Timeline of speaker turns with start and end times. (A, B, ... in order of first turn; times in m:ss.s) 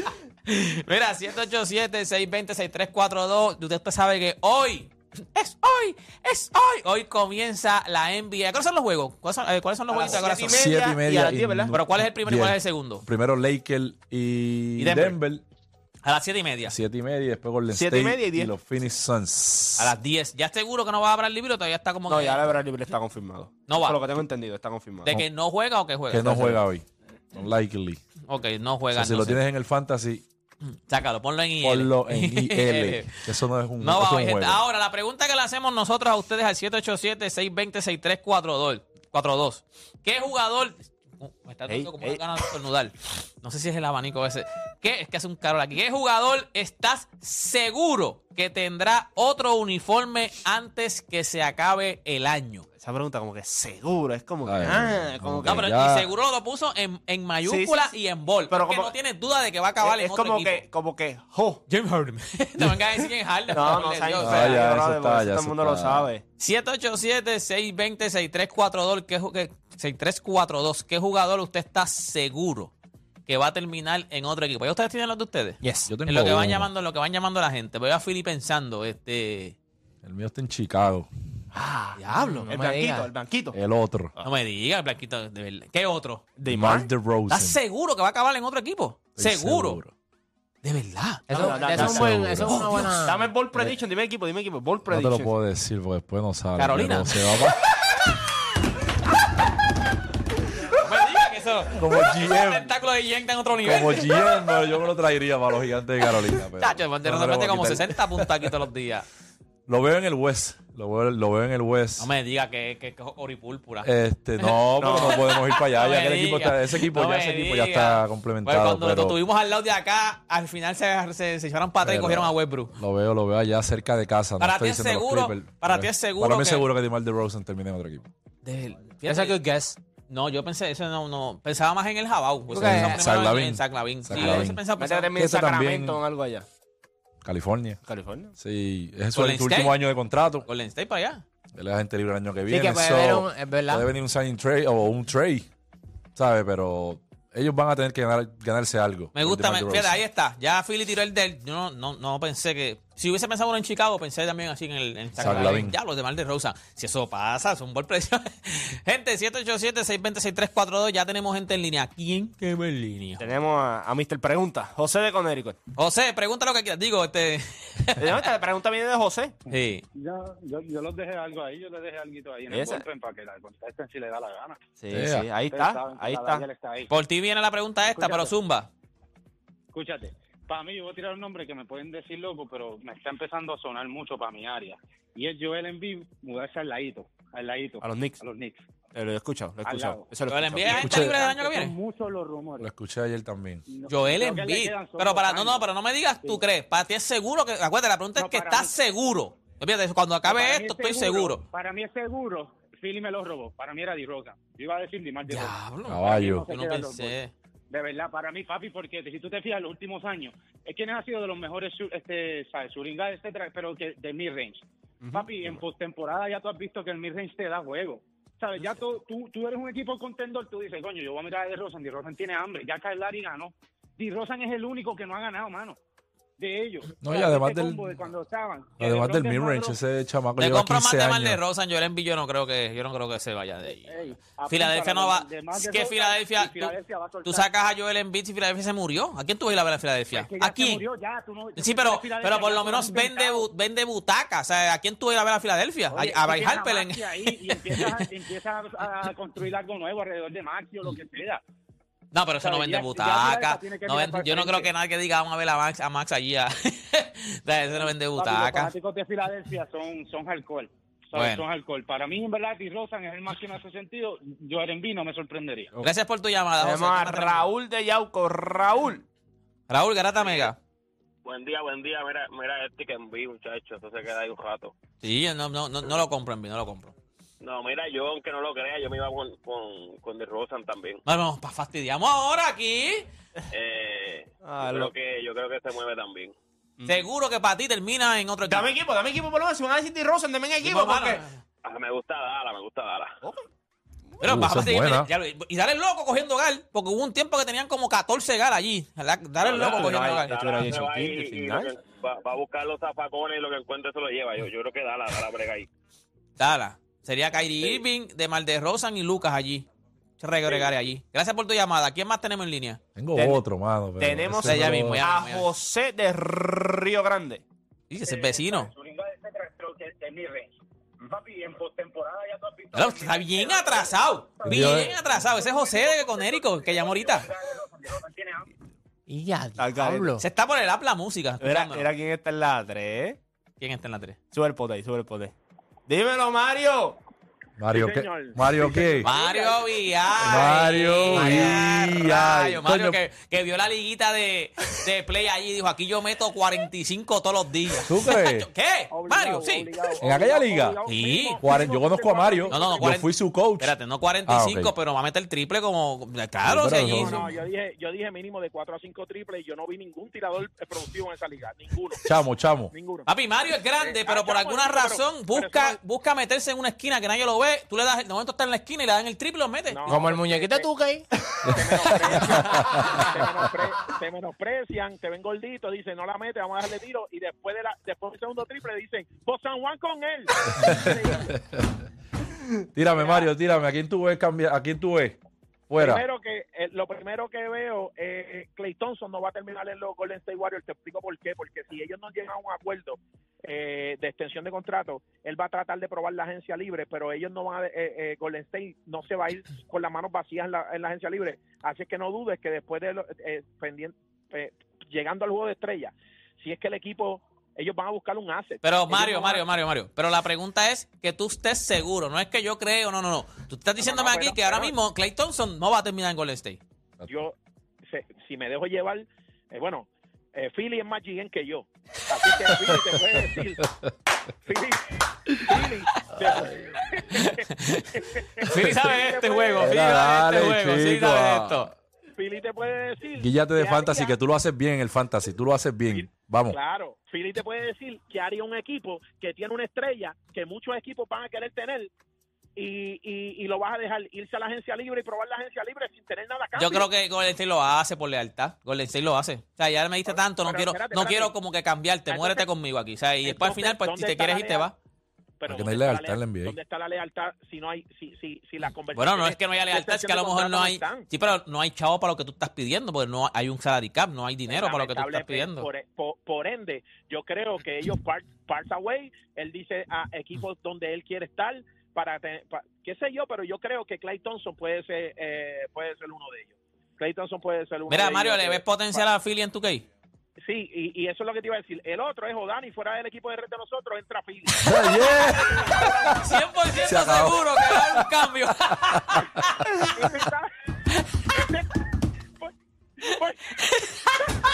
0:00.5-0:10.7 A
0:09.9-0:11.8 B
0:10.4-0:15.4 C
0:11.7-0:13.0 A
0:14.8-0:15.2 A
0:16.0-0:16.8 A
0:16.7-0:20.0 C
0:17.7-0:18.5 B
0:19.8-0:22.5 A
0:22.1-0:25.2 B
0:23.7-0:24.0 A
0:25.1-0:26.6 A
0:26.1-0:28.0 C
0:28.3-0:29.4 A
0:28.9-0:30.2 C
0:30.7-0:33.2 A
0:31.6-0:34.6 C
0:33.8-0:52.7 A
0:41.7-0:42.2 B
0:52.8-0:55.6 B
0:54.4-0:56.1 C
0:55.5-1:00.6 A
0:57.4-0:58.0 B
0:58.5-0:59.0 B
0:59.8-1:01.6 B
1:01.7-1:04.7 A
1:03.5-1:06.2 B
1:04.2-1:06.1 C
1:06.4-1:12.7 A
1:13.3-1:19.6 A
1:15.6-1:15.9 D
1:15.9-1:16.7 C
1:20.0-1:21.1 C
1:21.6-1:21.9 B
1:22.0-1:22.5 A
1:22.0-1:23.1 D
1:22.5-1:23.6 B
1:23.5-1:24.1 C
1:24.2-1:26.2 A
1:26.4-1:26.9 B
1:26.5-1:27.6 C
1:27.3-1:29.8 A
1:29.2-1:29.9 C
1:30.6-1:31.6 A
1:31.3-1:33.2 D
1:31.3-1:32.2 B
1:31.7-1:32.6 C
1:32.5-1:32.9 A
1:33.0-1:35.3 B
1:34.9-1:37.6 C
1:36.6-1:37.5 A
1:40.7-1:44.6 A
1:41.7-1:42.8 C
1:43.6-1:48.5 C
1:46.6-1:49.1 A
1:49.7-1:52.1 C
1:52.0-1:53.9 A
1:53.8-1:59.2 C
1:54.4-2:02.8 A
1:54.8-1:55.3 B
2:01.8-2:08.1 C
2:04.4-2:06.7 A
2:08.4-2:09.4 A
2:09.1-2:09.8 D
2:10.1-2:15.1 A
2:12.5-2:13.0 D
2:12.6-2:14.6 C
2:14.2-2:16.5 B
2:15.2-2:16.0 C
2:17.2-2:17.8 C
2:17.8-2:18.3 B
2:18.4-2:20.5 C
2:19.1-2:19.8 A
2:20.4-2:21.2 A
2:21.5-2:25.5 C
2:22.5-2:23.9 D
2:26.2-2:30.0 C
2:29.1-2:43.3 A
2:35.2-2:35.8 C
2:43.2-2:45.6 B
2:45.8-2:48.3 A
2:48.0-2:49.4 B
2:49.5-2:49.8 A
2:49.9-2:54.6 E
2:52.5-2:52.8 B
2:54.8-2:56.5 B
2:54.9-2:55.3 C
2:55.5-2:56.9 E
2:56.9-2:58.7 A
2:57.9-2:58.3 E
2:59.7-3:08.6 E
3:07.8-3:08.2 B
3:08.9-3:10.9 B
3:09.6-3:10.1 E
3:10.3-3:11.7 A
3:10.6-3:12.7 E
3:10.7-3:11.2 C
3:12.6-3:13.6 C
3:13.7-3:15.7 E
3:13.9-3:21.4 A
3:18.2-3:18.7 E
3:20.2-3:27.2 E
3:25.3-3:27.3 A
3:25.9-3:26.5 C
3:27.7-3:45.8 E
3:35.0-3:35.6 B
3:46.4-3:49.8 E
3:47.0-3:48.0 C
3:48.8-3:51.4 C
3:50.4-4:00.8 A
3:53.8-3:57.5 E
4:00.1-4:03.5 E
4:01.6-4:08.1 A
4:05.9-4:11.4 E
4:12.1-4:18.7 A
4:12.4-4:14.7 E
4:17.7-4:25.7 E
4:21.1-4:21.4 A
4:25.8-4:27.5 A
4:26.6-4:29.0 B
4:29.7-4:30.6 A
4:30.2-4:30.5 F
4:31.2-4:34.8 F
4:35.0-4:36.9 A
4:37.4-4:41.0 F
4:41.1-4:43.1 A
4:43.5-4:46.4 F
4:44.4-4:44.9 B
4:46.8-4:47.1 B
4:46.9-4:48.7 A
4:48.4-4:51.2 B
4:50.6-4:51.4 A
4:51.6-4:53.2 F
4:54.2-5:00.4 A
4:54.2-4:55.1 C
4:59.4-5:01.7 B
4:59.4-5:05.7 F
5:06.4-5:09.7 A
5:10.2-5:12.8 A
5:13.0-5:15.0 C
5:13.2-5:13.4 B
5:14.0-5:17.4 B
5:14.4-5:15.5 A
5:17.9-5:18.7 A
5:22.7-5:27.3 A
5:24.4-5:25.0 C
5:29.1-5:30.2 D
5:29.6-5:30.1 B
5:30.2-5:31.9 A
5:31.4-5:33.2 B
5:33.6-5:34.2 A
5:34.3-5:35.3 B
5:35.9-5:37.0 B
5:37.6-5:39.1 C
5:37.7-5:40.5 G
5:39.0-5:49.7 A
5:40.2-5:43.0 C
5:41.1-5:41.6 D
5:47.8-5:48.5 C
5:48.9-5:53.0 G
5:50.0-5:50.8 C
5:50.9-5:51.4 A
5:51.4-5:53.8 C
5:52.5-5:57.3 A
5:54.3-5:54.7 C
5:56.4-5:57.3 C
5:56.8-6:02.1 G
6:02.0-6:02.7 C
6:02.7-6:03.1 G
6:03.1-6:09.8 A
6:03.8-6:05.8 G
6:09.7-6:10.7 G
6:09.9-6:11.1 D
6:11.5-6:21.4 G
6:11.5-6:13.0 C
6:20.5-6:20.9 C
6:22.7-6:25.2 C
6:23.0-6:23.3 G
6:25.7-6:26.0 C
6:25.8-6:49.4 G
6:48.6-6:56.6 A
6:53.8-6:54.7 G
6:57.1-7:03.6 G
7:02.7-7:03.0 C
7:03.7-7:03.9 C
7:04.4-7:07.4 G
7:07.2-7:11.7 A
7:08.0-7:09.8 G
7:09.6-7:11.7 C
7:12.2-7:14.1 G
7:13.2-7:16.6 C
7:15.9-7:21.9 G
7:22.6-7:26.9 G
7:26.6-7:34.8 A
7:30.1-7:31.3 G
7:32.1-7:32.5 G
7:33.2-7:34.7 G
7:35.4-7:41.1 G
7:35.5-7:36.6 C
7:38.9-7:45.7 A
7:44.5-7:59.1 G
7:57.9-7:59.8 A
8:00.4-8:04.8 G
8:04.6-8:06.2 C
8:05.5-8:06.3 G
8:06.2-8:09.5 A
8:06.8-8:08.1 C
8:08.9-8:09.2 C
8:09.9-8:10.5 G
8:11.3-8:11.8 G
8:12.4-8:13.7 G
8:13.6-8:14.1 A